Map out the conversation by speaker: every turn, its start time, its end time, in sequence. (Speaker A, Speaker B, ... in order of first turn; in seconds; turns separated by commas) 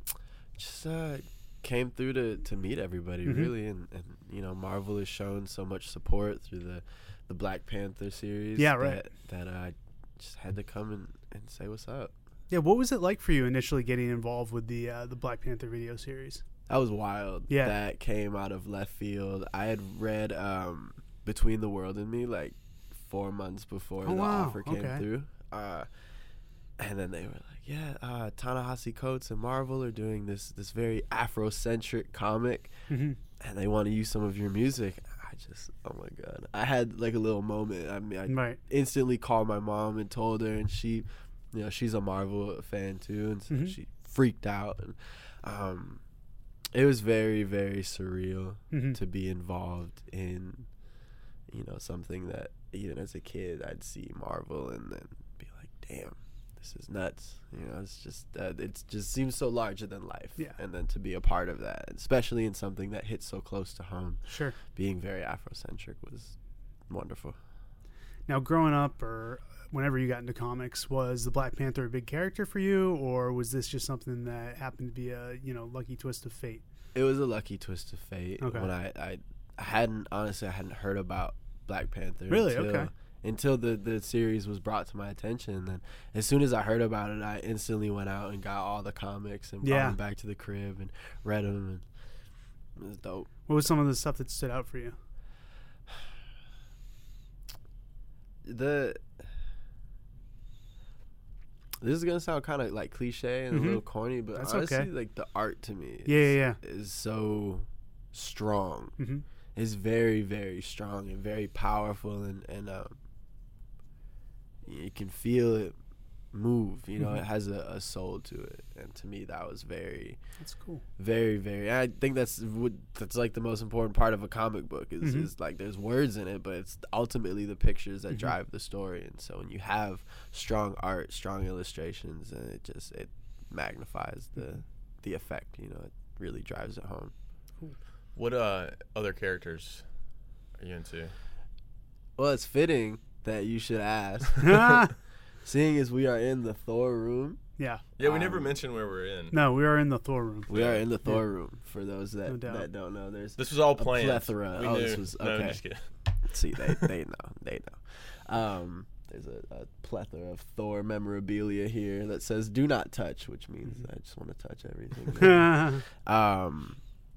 Speaker A: 0.6-12.1, Speaker B: 3.2-3.5, Speaker B: 8.6-9.0, Speaker B: 12.5-16.4, Speaker A: 16.7-25.9, Speaker B: 17.5-17.8, Speaker B: 24.0-25.1, Speaker A: 26.8-32.7, Speaker B: 32.9-33.2, Speaker A: 33.4-46.0, Speaker B: 38.3-38.6, Speaker A: 46.7-50.7, Speaker B: 48.7-49.0, Speaker A: 51.5-64.2, Speaker B: 64.3-64.6, Speaker A: 64.7-66.3, Speaker A: 66.9-67.4, Speaker B: 68.3-76.6, Speaker A: 77.0-91.8, Speaker B: 78.4-78.7, Speaker B: 82.3-82.9, Speaker B: 89.6-90.0, Speaker A: 92.8-93.3, Speaker B: 93.5-95.0, Speaker A: 98.4-99.1, Speaker A: 101.8-109.0, Speaker B: 103.5-103.8, Speaker B: 104.3-104.9, Speaker B: 106.1-106.6, Speaker B: 109.0-109.2, Speaker A: 109.5-113.0, Speaker A: 114.7-115.8, Speaker A: 116.3-120.2, Speaker B: 120.4-120.8, Speaker A: 121.0-137.1, Speaker B: 125.0-125.3, Speaker C: 138.2-139.8, Speaker C: 140.6-141.1, Speaker A: 142.2-144.8, Speaker B: 144.4-144.9, Speaker A: 145.4-147.4, Speaker B: 147.6-147.8, Speaker C: 148.0-149.4, Speaker A: 148.0-148.6, Speaker B: 149.3-150.5, Speaker A: 150.5-155.6, Speaker C: 150.5-150.8, Speaker B: 152.3-152.7, Speaker C: 153.4-155.9, Speaker A: 156.3-166.8, Speaker C: 156.6-156.9, Speaker B: 165.2-165.8